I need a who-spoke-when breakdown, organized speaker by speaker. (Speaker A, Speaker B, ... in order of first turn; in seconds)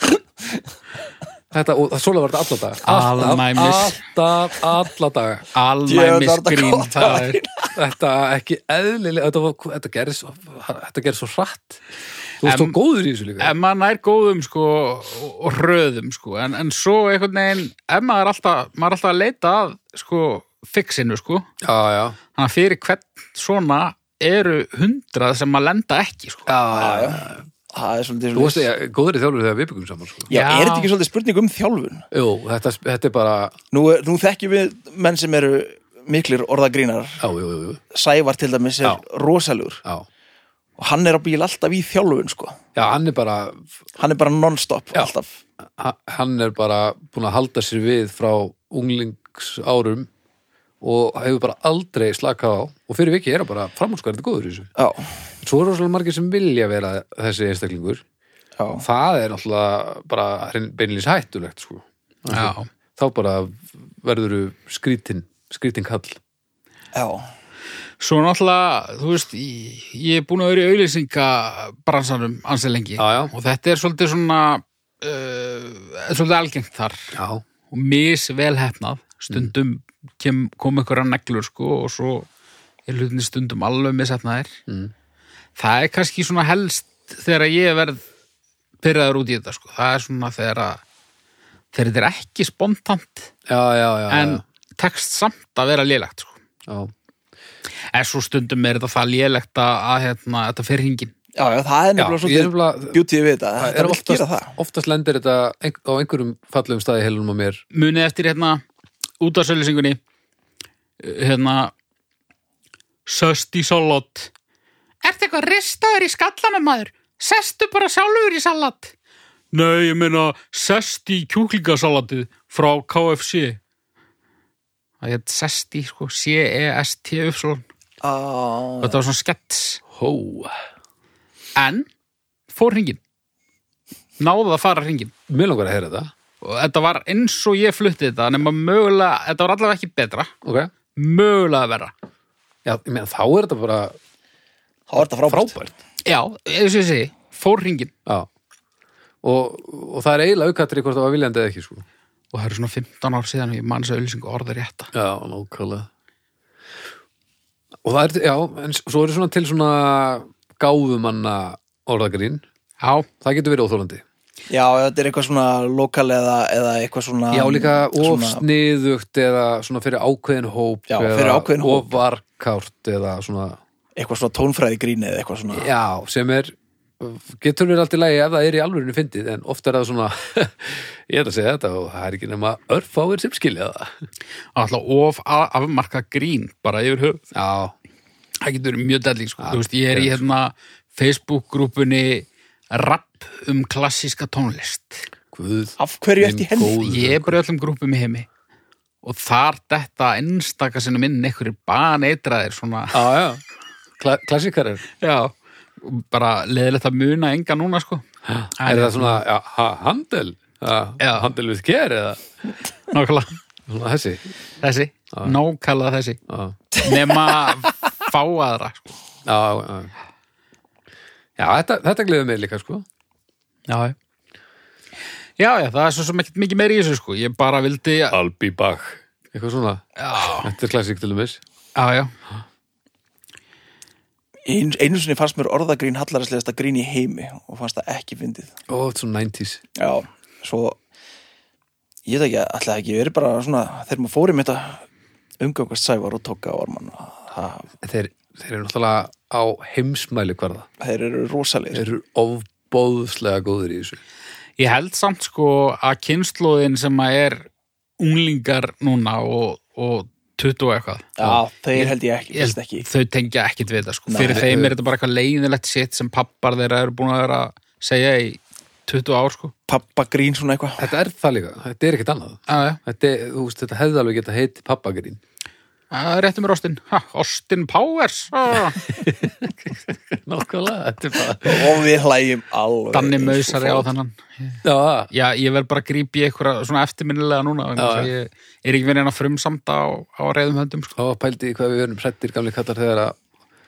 Speaker A: 1.5-5.5, 7.8-11.8, 12.4-13.5, 21.6-22.2, 26.5-27.4, 28.4-30.3, 32.1-33.5, 37.2-37.8, 42.8-43.7, 45.7-50.1, 50.8-54.7, 55.4-58.0, 58.8-66.2, 73.0-73.3, 77.1-77.4, 84.7-84.9, 93.5-94.4, 96.7-96.9, 102.0-103.0, 103.6-107.6, 129.9-130.5, 135.3-136.1, 140.4-140.7, 142.6-144.0, 145.0-145.8, 149.2-151.8, 154.9-155.9, 157.8-162.4, 163.2-164.0, 167.3-173.6, 175.5-183.9, 187.3-187.7, 189.4-190.2, 195.3-197.4, 202.9-203.4, 204.0-204.9, 208.3-212.2, 213.7-214.3, 216.3-216.6, 219.2-219.9, 221.4-222.8, 228.1-231.4, 238.7-239.6, 247.8-250.7, 251.7-254.0, 264.2-264.7, 270.8-275.2, 278.8-281.8, 284.6-285.1, 287.8-288.1, 291.0-293.2
Speaker B: 2.9-4.0, 5.5-7.4, 12.4-12.8, 13.4-21.5, 22.4-26.5, 30.3-30.9, 62.3-62.7, 68.0-77.2, 77.7-82.3, 82.9-84.6, 85.6-88.0, 88.8-90.8, 91.7-93.3, 94.1-96.4, 97.9-101.1, 107.7-108.6, 109.2-110.0, 111.0-111.7, 113.1-114.3, 115.0-118.9, 119.5-123.6, 125.0-127.6, 128.8-129.8, 131.6-131.9, 132.5-133.0, 134.2-135.1, 136.4-140.3, 140.9-141.9, 146.1-147.9, 152.3-154.9, 162.8-163.1, 184.6-187.2, 188.4-195.1, 196.8-198.3, 199.0-203.0, 205.0-208.1, 208.6-209.2, 211.0-211.3, 212.9-213.4, 214.6-216.2, 216.8-219.0, 223.7-224.0, 225.4-228.2, 230.0-230.5, 231.8-232.1, 254.6-257.5, 258.0-261.1, 262.3-269.5, 272.5-272.8, 275.9-278.8, 282.9-290.9
Speaker C: 5.9-7.7, 26.8-28.7, 30.3-32.1, 33.7-37.2, 37.9-39.8, 40.8-42.6, 44.0-45.4, 54.8-55.1, 58.6-58.9, 67.0-67.3, 101.4-104.6, 128.0-129.0, 144.9-145.6, 164.5-168.4, 170.9-171.9, 174.0-175.7, 195.8-196.8, 234.5-238.5, 239.8-240.8, 242.1-244.8, 245.4-247.7, 250.8-251.8, 261.2-262.9, 264.1-264.4, 269.7-270.8, 281.4-283.9